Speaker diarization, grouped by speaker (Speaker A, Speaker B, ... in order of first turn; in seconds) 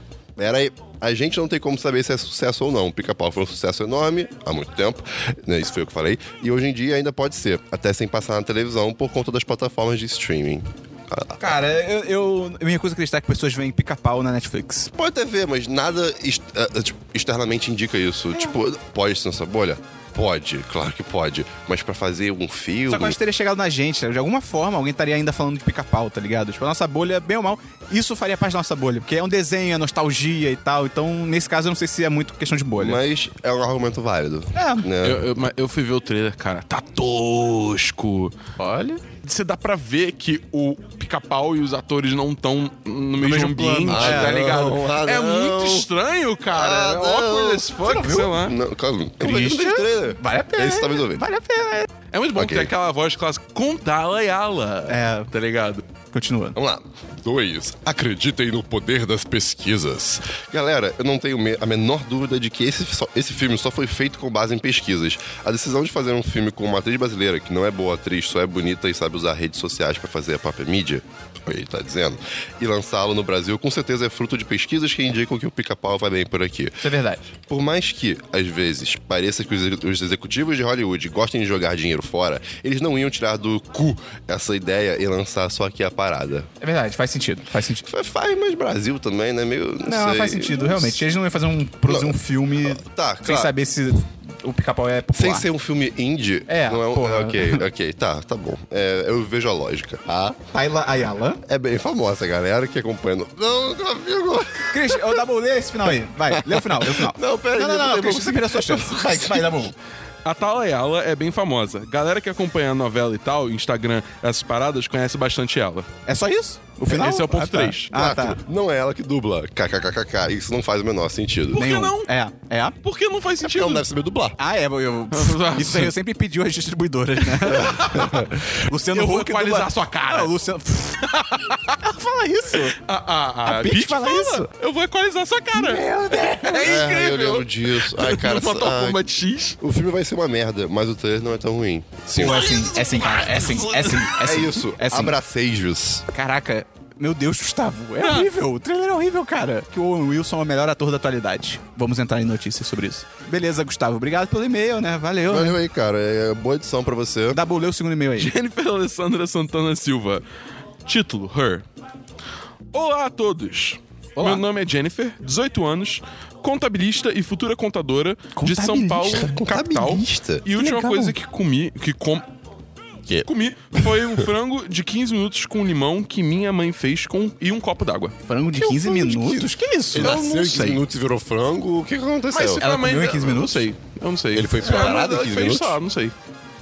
Speaker A: 0.4-11.5, 14.9-23.2, 32.8-35.3, 43.9-45.9, 46.5-47.7, 48.3-51.2, 52.3-52.7, 56.5-76.8, 77.5-86.5, 87.8-91.0, 91.9-93.5, 95.1-100.4, 101.5-105.2, 106.3-109.7, 117.9-121.6, 123.4-124.4, 127.5-128.3, 136.6-139.0, 139.6-142.5, 144.2-146.0, 155.3-157.4, 169.1-170.5, 173.1-174.1, 178.6-182.6, 184.3-185.8
Speaker B: 11.4-14.9, 22.9-33.0, 34.5-34.9, 38.6-39.0, 43.2-44.5, 47.8-48.4, 49.2-51.9, 54.9-55.3, 56.1-56.6, 76.8-77.2, 86.6-87.8, 89.8-95.5, 96.5-97.6, 100.5-101.4, 104.7-109.7, 116.1-118.4, 121.5-122.8, 124.4-128.0, 128.6-132.8, 133.4-134.5, 135.5-136.8, 142.1-145.2, 146.1-155.6, 157.3-158.3, 164.2-164.4, 168.3-169.4, 170.5-171.1, 178.3-180.2, 182.6-183.7
Speaker C: 35.0-38.3, 39.2-48.5, 52.1-55.8, 110.2-115.9, 116.9-117.9, 121.5-122.1, 122.8-123.8, 125.1-125.9, 127.4-128.2, 128.9-130.3, 131.3-131.6, 132.6-139.6, 142.2-144.1, 148.0-148.3, 158.2-160.2, 160.8-161.6, 162.7-172.2, 173.2-178.2, 180.0-180.8, 182.3-186.1